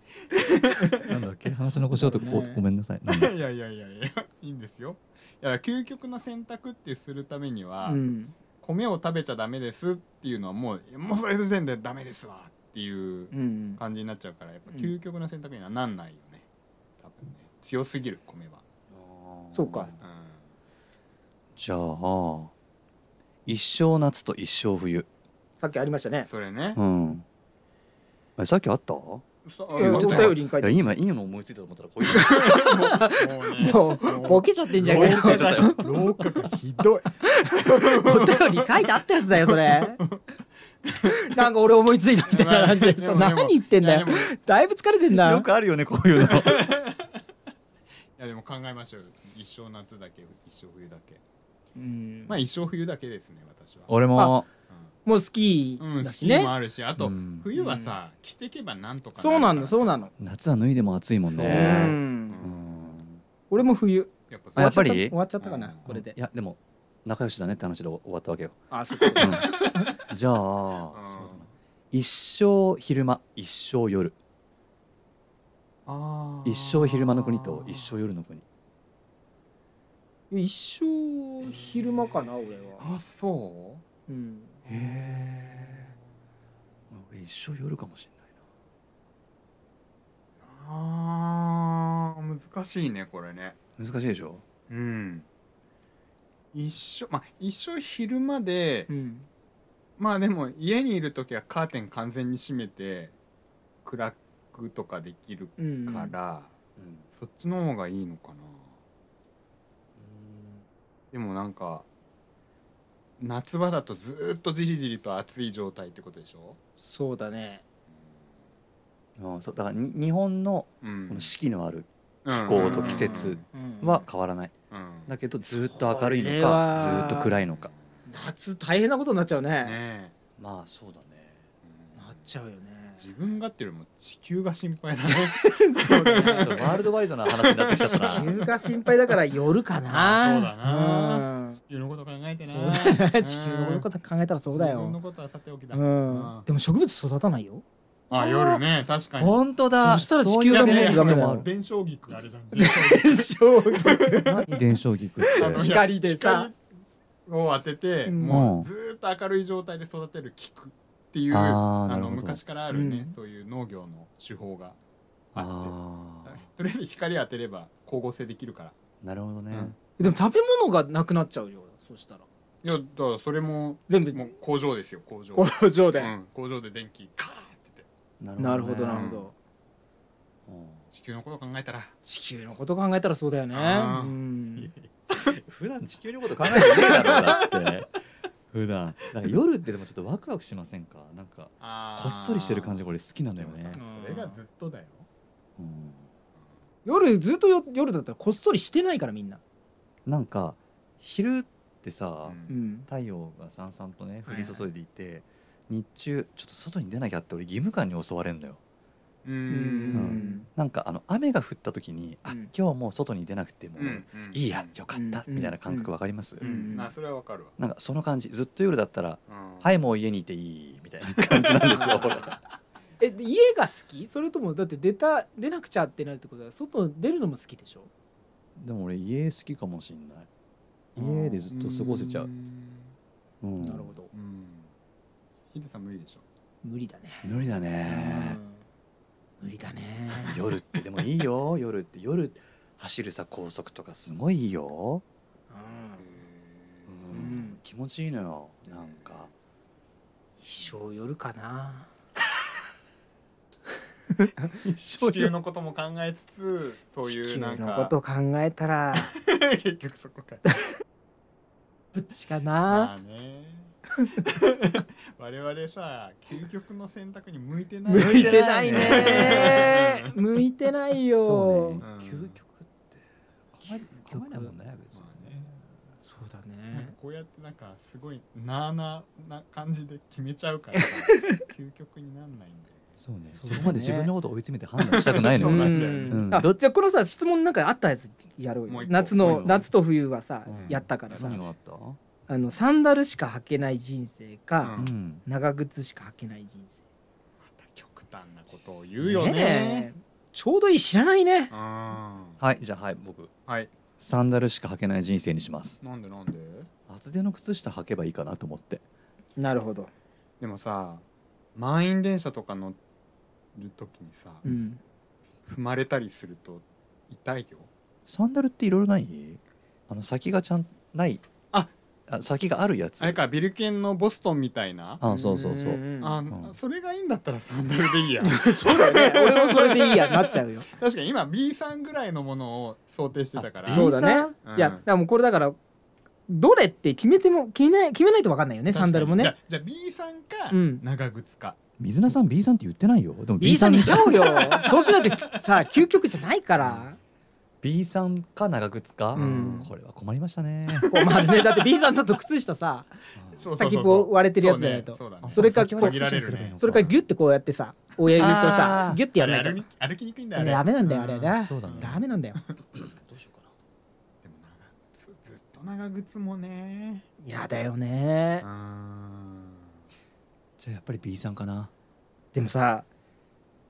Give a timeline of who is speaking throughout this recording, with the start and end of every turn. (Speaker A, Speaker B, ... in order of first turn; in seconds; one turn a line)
Speaker A: 0.3-1.1
Speaker B: 1.0-3.3
Speaker C: 1.8-2.6
Speaker A: 3.1-8.0
Speaker C: 7.8-8.3
Speaker A: 8.6-16.4
Speaker C: 13.3-13.8
Speaker A: 17.0-18.6
Speaker B: 18.9-20.0
Speaker C: 19.5-19.9
Speaker A: 20.0-20.4
Speaker B: 21.6-22.5
Speaker B: 23.4-25.1
Speaker C: 25.6-26.3
Speaker A: 26.2-26.8
Speaker B: 26.8-27.2
Speaker B: 28.4-29.2
Speaker A: 29.4-30.4
Speaker C: 29.7-30.9
Speaker B: 29.7-32.8
Speaker A: 32.1-38.9
Speaker C: 32.3-36.0
Speaker B: 34.8-35.8
Speaker C: 37.2-40.0
Speaker A: 39.4-40.2
Speaker C: 41.1-45.5
Speaker A: 42.3-44.3
Speaker B: 45.1-46.7
Speaker A: 46.3-47.1
Speaker A: 48.2-51.2
Speaker C: 51.8-52.4
Speaker A: 52.3-54.0
Speaker B: 53.9-54.5
Speaker C: 54.1-54.4
Speaker A: 54.7-54.9
Speaker C: 55.0-56.5
Speaker A: 55.8-60.1
Speaker B: 57.0-57.5
Speaker C: 57.5-58.0
Speaker C: 59.1-60.1
Speaker B: 60.2-63.2
Speaker C: 61.3-62.4
Speaker A: 61.3-62.7
Speaker C: 63.5-66.2
Speaker A: 64.3-64.8
Speaker B: 64.5-65.2
Speaker A: 65.4-65.8
Speaker B: 65.8-68.6
Speaker C: 68.7-69.8
Speaker A: 69.0-69.8
Speaker B: 69.2-74.2
Speaker A: 70.9-71.5
Speaker A: 75.8-78.0
Speaker B: 76.4-78.4
Speaker C: 80.3-82.8
Speaker A: 81.4-83.8
Speaker C: 84.1-84.6
Speaker B: 84.7-85.9
Speaker B: 86.9-88.2
Speaker A: 90.4-93.6
Speaker B: 93.8-94.4
Speaker A: 94.7-95.3
Speaker A: 96.5-98.9
Speaker C: 98.9-99.3
Speaker A: 100.0-103.1
Speaker A: 103.8-106.5
Speaker C: 105.6-106.1
Speaker B: 106.8-107.0
Speaker A: 107.1-108.7
Speaker B: 110.0-110.6
Speaker A: 111.1-111.8
Speaker A: 113.2-116.6
Speaker C: 116.8-117.6
Speaker B: 119.2-124.5
Speaker A: 120.8-121.3
Speaker A: 122.2-123.4
Speaker C: 122.5-124.0
Speaker A: 124.7-125.1
Speaker B: 125.1-127.7
Speaker C: 125.5-127.3
Speaker A: 126.8-127.7
Speaker C: 128.1-129.8
Speaker A: 129.6-130.1
Speaker B: 130.4-131.4
Speaker A: 131.6-132.2
Speaker C: 132.0-133.0
Speaker A: 132.9-139.2
Speaker C: 135.2-136.7
Speaker B: 136.4-138.3
Speaker C: 137.9-141.6
Speaker A: 139.8-143.9
Speaker C: 142.4-145.0
Speaker A: 144.5-146.5
Speaker C: 145.7-147.6
Speaker A: 148.1-149.4
Speaker C: 148.2-148.6
Speaker B: 149.2-151.5
Speaker C: 149.8-151.5
Speaker A: 150.5-154.3
Speaker C: 152.5-154.3
Speaker B: 154.2-155.7
Speaker C: 155.2-156.5
Speaker A: 155.3-156.6
Speaker A: 157.3-164.8
Speaker C: 158.1-158.5
Speaker B: 158.3-158.7
Speaker B: 161.3-162.4
Speaker C: 162.7-163.1
Speaker A: 165.3-168.8
Speaker B: 165.3-166.4
Speaker B: 169.0-169.7
Speaker A: 169.5-169.8
Speaker C: 170.0-172.2
Speaker A: 172.6-177.9
Speaker C: 173.9-174.3
Speaker C: 175.3-176.1
Speaker B: 178.2-179.1
Speaker C: 178.4-179.3
Speaker A: 178.9-179.3
Speaker B: 180.5-180.8
Speaker A: 180.9-181.9
Speaker C: 182.0-184.7
Speaker A: 183.5-185.3
Speaker B: 185.3-187.9
Speaker A: 186.5-187.6
Speaker B: 188.5-193.8
Speaker A: 191.6-195.1
Speaker C: 193.7-194.4
Speaker B: 195.6-196.1
Speaker C: 196.8-199.4
Speaker B: 200.1-208.6
Speaker A: 202.2-202.5
Speaker C: 202.5-202.9
Speaker C: 204.2-204.7
Speaker A: 209.2-210.4
Speaker C: 209.5-210.5
Speaker B: 209.9-216.5
Speaker C: 212.3-212.5
Speaker A: 213.8-214.7
Speaker C: 214.9-216.9
Speaker A: 216.4-217.5
Speaker B: 217.6-222.4
Speaker A: 219.3-219.7
Speaker A: 221.4-222.4
Speaker C: 223.0-227.9
Speaker B: 228.6-230.3
Speaker B: 231.0-232.3
Speaker A: 231.0-232.9
Speaker B: 233.4-233.9
Speaker C: 233.6-234.1
Speaker A: 234.1-234.7
Speaker A: 235.5-236.2
Speaker C: 236.6-238.6
Speaker B: 237.2-238.4
Speaker C: 239.4-240.4
Speaker B: 240.2-245.0
Speaker C: 245.5-246.0
Speaker A: 246.0-246.9
Speaker B: 246.9-249.3
Speaker C: 247.1-247.6
Speaker A: 248.7-249.1
Speaker C: 250.4-251.9
Speaker B: 254.6-255.3
Speaker A: 255.0-257.9
Speaker C: 257.0-259.1
Speaker A: 258.9-260.5
Speaker C: 261.9-262.9
Speaker A: 262.7-270.1
Speaker C: 267.9-271.8
Speaker B: 267.9-269.8
Speaker B: 271.2-275.6
Speaker A: 271.8-272.4
Speaker C: 274.1-274.5
Speaker A: 274.9-275.3
Speaker C: 276.0-276.9
Speaker A: 276.7-283.0
Speaker C: 280.8-281.4
Speaker B: 283.0-286.5
Speaker C: 283.3-284.1
Speaker A: 284.8-286.3
Speaker C: 285.4-291.4
Speaker A: 288.7-289.7
Speaker B: 289.2-289.6
Speaker A: 290.4-291.5
Speaker B: 291.1-292.0
Speaker C: 292.3-296.7
Speaker A: 294.6-294.9
Speaker B: 294.7-295.2
Speaker A: 297.4-299.9
Speaker C: 299.0-301.5
Speaker A: 301.5-302.4
Speaker B: 302.4-303.3
Speaker B: 304.0-305.8
Speaker A: 305.8-306.7
Speaker B: 306.9-308.8
Speaker C: 309.4-309.9
Speaker A: 310.4-311.0
Speaker A: 311.6-312.8
Speaker A: 313.5-314.4
Speaker C: 314.4-314.8
Speaker A: 315.4-317.7
Speaker B: 318.1-321.2
Speaker B: 322.1-323.2
Speaker A: 323.0-325.0
Speaker B: 325.0-326.5
Speaker C: 325.0-326.2
Speaker A: 326.0-334.8
Speaker C: 328.2-330.7
Speaker B: 333.3-334.3
Speaker C: 333.7-335.6
Speaker C: 336.3-339.3
Speaker A: 338.7-341.6
Speaker C: 340.5-340.8
Speaker B: 341.8-344.5
Speaker C: 343.4-347.0
Speaker A: 344.3-345.7
Speaker B: 346.6-346.9
Speaker B: 347.6-350.9
Speaker A: 349.1-349.7
Speaker C: 349.1-349.7
Speaker A: 350.7-351.4
Speaker C: 350.9-352.9
Speaker B: 353.2-353.4
Speaker A: 353.4-357.0
Speaker C: 353.5-359.6
Speaker B: 355.2-357.0
Speaker B: 358.1-359.0
Speaker A: 359.1-362.0
Speaker C: 360.3-362.4
Speaker B: 361.4-362.0
Speaker B: 362.8-363.5
Speaker A: 364.2-367.1
Speaker C: 367.2-368.4
Speaker A: 368.4-369.8
Speaker B: 370.6-371.7
Speaker C: 372.3-372.9